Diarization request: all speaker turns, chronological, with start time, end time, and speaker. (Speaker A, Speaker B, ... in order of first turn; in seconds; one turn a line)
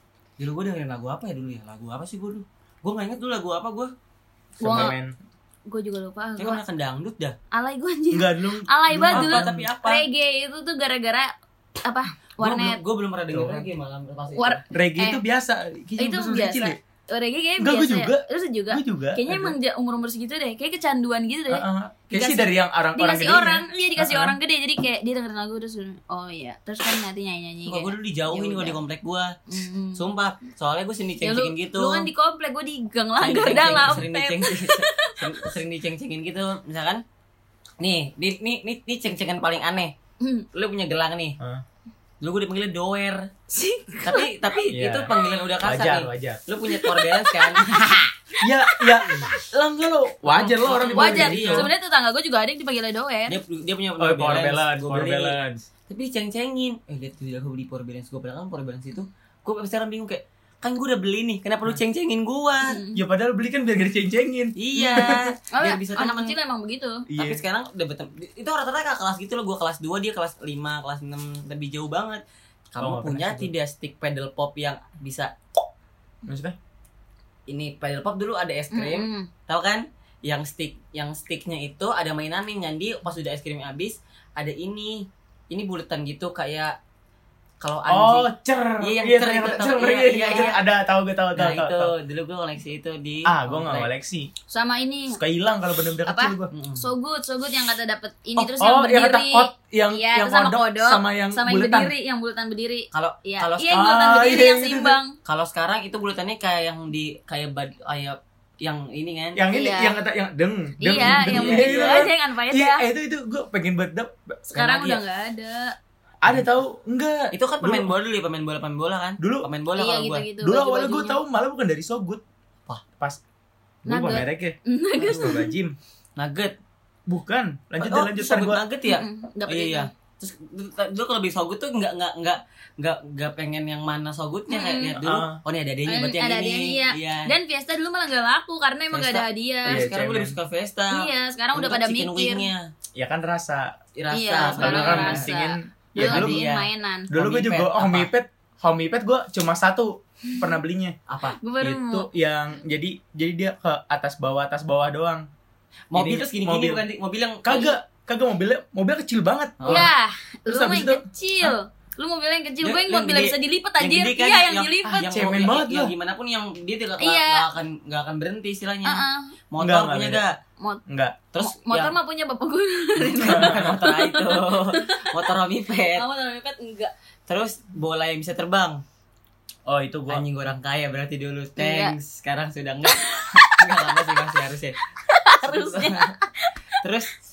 Speaker A: 0.4-3.9
Speaker B: 4.6-5.2
Speaker C: 4.6-4.9
Speaker C: 5.7-6.6
Speaker A: 6.4-7.4
Speaker C: 7.5-11.3
Speaker B: 8.1-9.7
Speaker A: 9.1-10.1
Speaker C: 11.8-12.8
Speaker A: 12.4-14.6
Speaker B: 13.3-13.7
Speaker C: 14.3-15.2
Speaker B: 14.7-16.8
Speaker C: 16.0-28.8
Speaker B: 17.6-19.6
Speaker B: 21.5-24.4
Speaker A: 27.7-29.4
Speaker C: 29.5-30.0
Speaker A: 29.9-32.1
Speaker C: 31.2-35.5
Speaker A: 33.2-37.0
Speaker B: 33.8-34.0
Speaker A: 37.8-40.0
Speaker C: 40.2-40.5
Speaker A: 40.5-41.4
Speaker A: 42.2-43.3
Speaker C: 43.5-44.3
Speaker A: 44.0-48.1
Speaker B: 44.7-46.4
Speaker C: 46.7-47.8
Speaker B: 48.4-51.7
Speaker C: 48.6-49.2
Speaker A: 50.4-51.7
Speaker C: 50.9-53.4
Speaker A: 53.3-55.4
Speaker B: 54.0-55.7
Speaker A: 55.9-62.8
Speaker C: 62.6-63.0
Speaker B: 62.9-65.2
Speaker A: 64.6-66.4
Speaker C: 64.7-67.1
Speaker B: 67.1-67.4
Speaker A: 67.2-75.6
Speaker B: 72.8-73.5
Speaker B: 76.3-76.6
Speaker A: 77.5-86.8
Speaker C: 78.7-79.3
Speaker A: 87.6-88.3
Speaker B: 87.9-91.9
Speaker A: 88.8-90.6
Speaker A: 91.3-93.9
Speaker B: 93.2-94.3
Speaker C: 94.5-95.2
Speaker B: 95.2-96.5
Speaker C: 96.0-105.2
Speaker A: 96.5-96.9
Speaker B: 98.6-101.9
Speaker A: 102.9-103.9
Speaker B: 103.7-105.0
Speaker A: 105.2-109.4
Speaker B: 109.4-114.5
Speaker C: 109.5-110.0
Speaker C: 110.8-112.8
Speaker A: 111.0-112.0
Speaker C: 114.5-115.8
Speaker A: 114.6-115.0
Speaker B: 116.2-117.9
Speaker A: 117.3-120.3
Speaker B: 119.2-119.5
Speaker C: 119.8-121.2
Speaker B: 120.4-122.2
Speaker B: 123.8-125.8
Speaker C: 123.9-125.5
Speaker A: 125.0-125.4
Speaker A: 126.2-126.5
Speaker B: 127.1-128.6
Speaker A: 127.8-137.3
Speaker C: 128.9-129.9
Speaker C: 134.5-135.0
Speaker B: 135.0-135.4
Speaker C: 135.9-139.9
Speaker A: 138.9-142.7
Speaker B: 139.7-140.4
Speaker C: 140.9-142.5
Speaker B: 143.0-143.8
Speaker A: 144.0-145.3
Speaker C: 144.1-147.1
Speaker B: 144.4-146.4
Speaker A: 146.0-148.1
Speaker B: 147.1-151.0
Speaker A: 151.1-151.4
Speaker C: 151.4-152.1
Speaker B: 151.6-155.3
Speaker A: 155.9-157.8
Speaker B: 155.9-156.8
Speaker B: 157.4-159.9
Speaker A: 159.6-159.9
Speaker C: 159.7-165.2
Speaker B: 160.5-161.6
Speaker A: 162.6-170.4
Speaker B: 164.9-165.9
Speaker C: 167.0-167.5
Speaker C: 168.8-169.3
Speaker B: 169.6-170.2
Speaker B: 170.9-171.2
Speaker A: 171.3-171.9
Speaker C: 171.4-175.1
Speaker A: 173.0-176.1
Speaker B: 173.2-173.6
Speaker C: 175.9-176.9
Speaker A: 177.3-178.8
Speaker B: 179.7-180.2
Speaker A: 180.1-184.8
Speaker C: 181.6-181.9
Speaker C: 182.9-184.1
Speaker C: 185.0-186.6
Speaker A: 185.4-186.1
Speaker A: 186.8-187.1